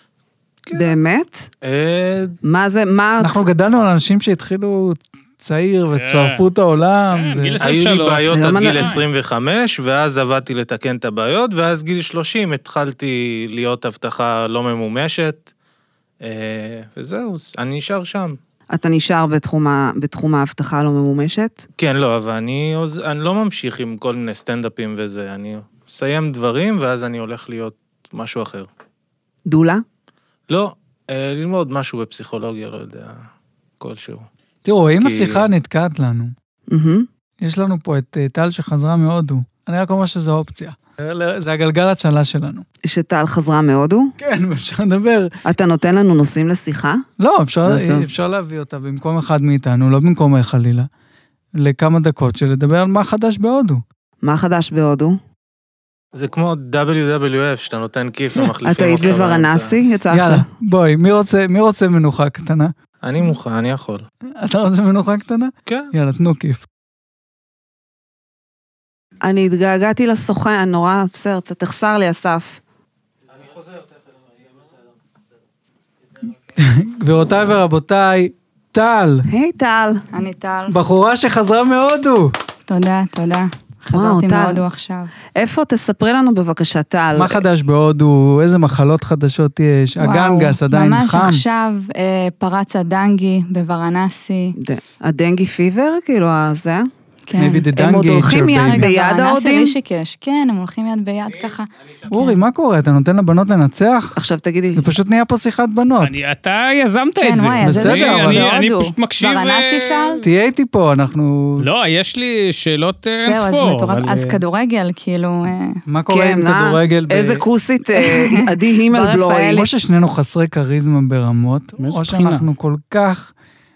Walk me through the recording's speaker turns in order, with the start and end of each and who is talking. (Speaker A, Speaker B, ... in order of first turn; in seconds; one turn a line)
Speaker A: 0.7-1.0
Speaker B: 0.7-1.5
Speaker A: 1.6-2.4
Speaker B: 2.4-3.5
Speaker C: 3.2-7.6
Speaker D: 5.9-6.4
Speaker D: 7.1-9.0
Speaker A: 7.6-15.5
Speaker B: 8.3-8.9
Speaker A: 16.2-18.4
Speaker B: 18.7-21.7
Speaker A: 21.8-28.7
Speaker B: 29.4-29.8
Speaker A: 30.5-33.2
Speaker A: 33.8-34.3
Speaker C: 34.6-36.3
Speaker A: 35.0-35.5
Speaker B: 36.7-37.1
Speaker C: 37.4-42.6
Speaker B: 42.8-44.1
Speaker C: 44.2-45.3
Speaker B: 45.4-47.0
Speaker C: 47.2-50.9
Speaker B: 47.6-48.1
Speaker C: 51.5-53.8
Speaker B: 54.2-55.2
Speaker A: 56.1-59.8
Speaker B: 58.6-60.5
Speaker C: 60.1-62.7
Speaker A: 63.0-64.0
Speaker C: 64.4-66.7
Speaker A: 65.7-65.9
Speaker B: 69.2-72.6
Speaker C: 76.5-79.2
Speaker B: 79.3-80.0
Speaker E: 80.1-80.8
Speaker C: 80.7-82.3
Speaker E: 82.7-85.1
Speaker B: 83.9-84.6
Speaker B: 85.3-87.4
Speaker C: 87.1-91.4
Speaker E: 90.0-94.5
Speaker B: 94.5-96.9
Speaker E: 97.3-97.7
Speaker C: 97.4-98.9
Speaker B: 97.8-99.7
Speaker E: 98.3-102.4
Speaker A: 101.3-102.1
Speaker C: 102.1-104.2
Speaker B: 104.2-104.8
Speaker C: 104.8-106.1
Speaker D: 106.0-110.2
Speaker E: 107.2-110.2
Speaker C: 107.6-108.5
Speaker C: 110.2-111.7
Speaker D: 111.6-114.4
Speaker E: 113.2-115.8
Speaker C: 115.9-117.5
Speaker B: 116.1-119.7
Speaker E: 118.0-119.6
Speaker C: 119.5-123.3
Speaker D: 121.8-122.4